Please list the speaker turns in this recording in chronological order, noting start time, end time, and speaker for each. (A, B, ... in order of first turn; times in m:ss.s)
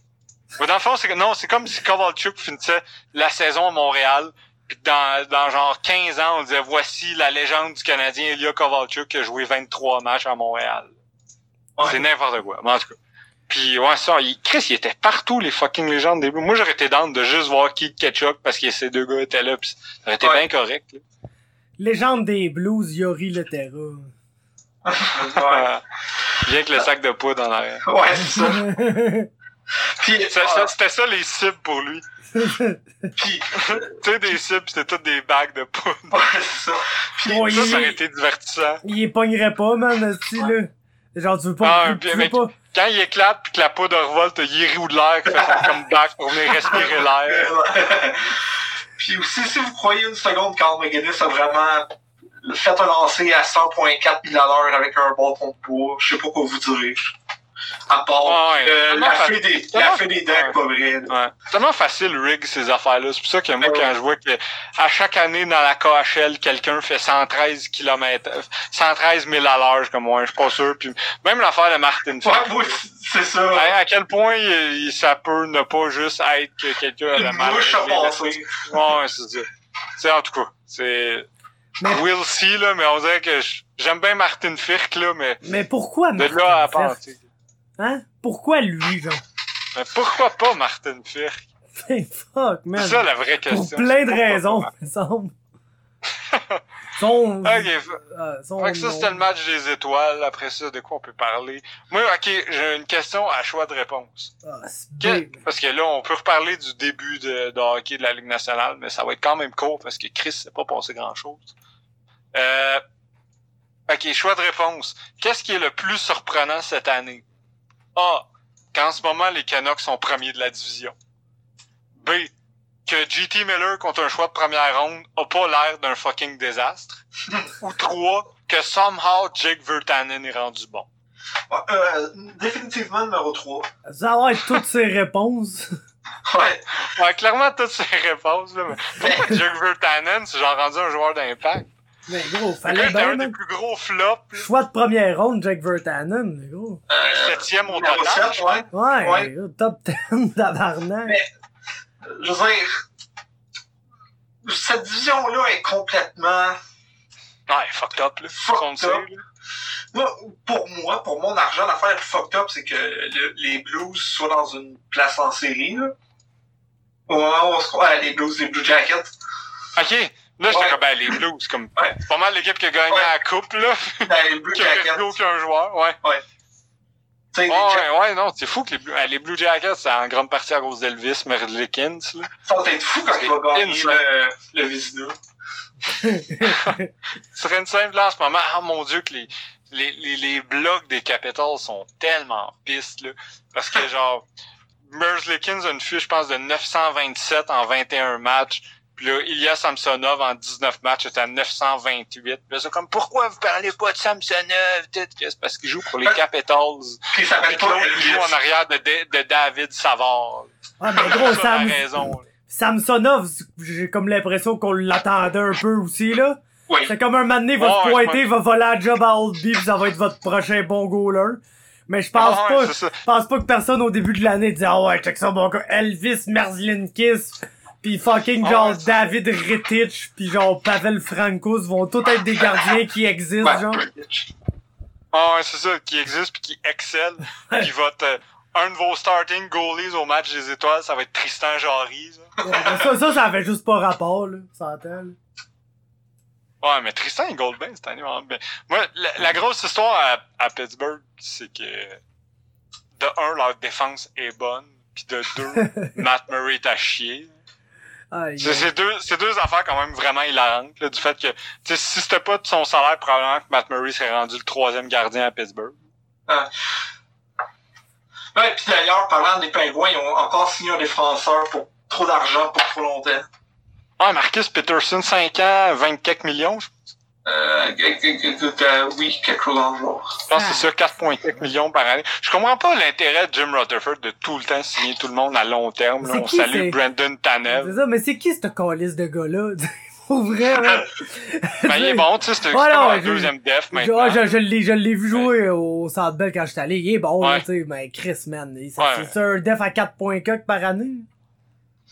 0:00.6-0:10.9 A
0:11.8-0:12.0 B
0:11.8-0:13.0 A
0:13.5-0:21.0 A
0:21.8-0:24.1 C
0:24.9-0:25.7 B
0:25.2-0:25.8 A
0:26.4-0:27.8 A
0:27.9-0:28.7 B
0:28.2-0:29.3 C
0:30.0-0:30.7 B
0:30.3-0:32.0 A
0:32.3-0:33.1 C
0:33.2-0:34.0 B
0:33.6-0:36.2 A
0:36.1-0:37.9 B
0:37.2-0:38.0 C
0:37.5-0:38.8 A
0:38.8-0:42.5 C
0:41.6-0:47.5 A
0:45.3-0:45.7 B
0:46.6-0:48.4 B
0:49.0-0:51.9 B
0:52.4-0:57.0 B
0:57.9-1:01.1 B
0:58.2-1:00.6 A
1:01.1-1:12.8 A
1:03.6-1:03.9 B
1:12.2-1:13.7 B
1:13.5-1:21.3 A
1:17.1-1:18.7 B
1:21.8-1:25.4 A
1:25.4-1:27.0 C
1:26.2-1:27.2 A
1:27.8-1:29.2 C
1:29.7-1:31.4 A
1:31.8-1:35.4 C
1:32.8-1:34.7 A
1:36.2-1:36.6 A
1:37.0-1:39.2 C
1:37.4-1:38.0 A
1:38.6-1:44.3 A
1:44.4-1:45.4 C
1:45.0-1:51.5 A
1:52.3-1:52.8 A
1:53.9-1:57.2 A
1:58.0-2:01.0 A
2:02.0-2:02.3 A
2:02.9-2:07.0 A
2:07.6-2:10.9 A
2:11.5-2:13.7 B
2:13.9-2:15.7 C
2:16.3-2:16.7 B
2:16.9-2:21.7 A
2:19.0-2:19.3 B
2:22.1-2:23.4 C
2:22.6-2:24.5 A
2:24.4-2:26.8 C
2:26.9-2:29.3 B
2:27.0-2:28.6 A
2:28.7-2:31.2 C
2:32.0-2:32.8 B
2:34.4-2:36.6 B
2:37.5-2:39.2 A
2:38.4-2:39.0 B
2:39.9-2:45.9 B
2:47.1-2:49.1 B
2:49.8-2:56.0 A
2:50.5-2:50.8 B
2:54.1-2:55.1 B
2:57.3-2:57.9 B
2:57.5-3:02.3 A
3:02.5-3:05.2 B
3:03.2-3:04.0 A
3:06.0-3:06.8 C
3:06.4-3:06.8 A
3:07.3-3:14.2 A
3:14.9-3:32.2 A
3:27.1-3:28.3 B
3:30.8-3:53.8 C
3:37.6-3:38.2 A
3:42.2-3:43.0 A
3:48.4-3:49.1 A
3:53.4-3:54.3 B
3:55.1-4:02.3 A
4:02.4-4:02.8 B
4:02.4-4:05.2 C
4:06.6-4:12.0 A
4:13.0-4:17.3 A
4:18.1-4:18.7 C
4:18.4-4:25.8 A
4:28.4-4:33.3 B
4:34.0-4:36.7 A
4:37.3-4:40.2 B
4:40.3-4:47.8 A
4:40.3-4:40.7 C
4:46.0-4:46.8 C
4:47.6-5:01.1 C
4:51.6-4:54.3 A
4:58.8-4:59.1 A